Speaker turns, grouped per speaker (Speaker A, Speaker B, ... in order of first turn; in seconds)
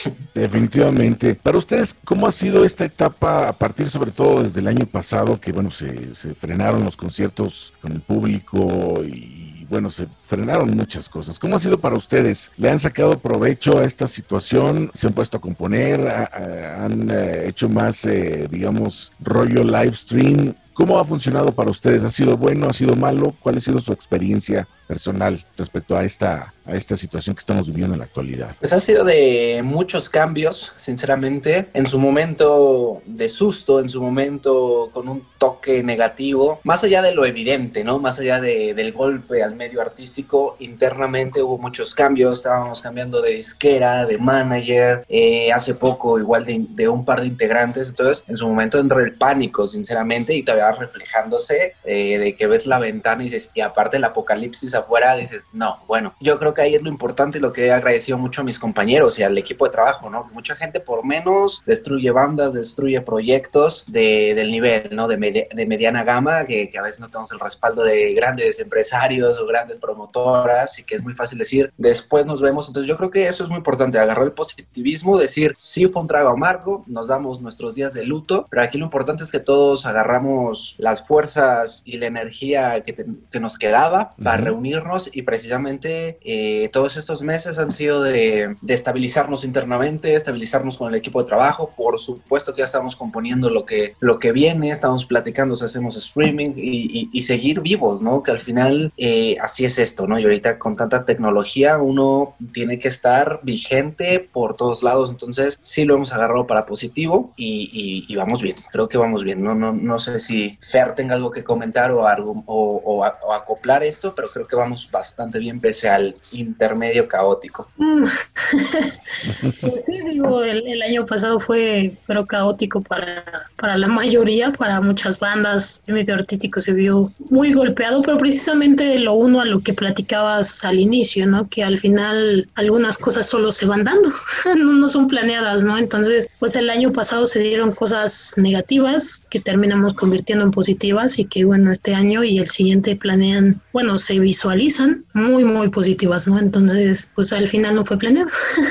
Speaker A: 0.3-28.6, 84.2-84.5, 119.2-119.6
Speaker B: 28.6-117.7
Speaker C: 117.8-119.0, 119.6-148.3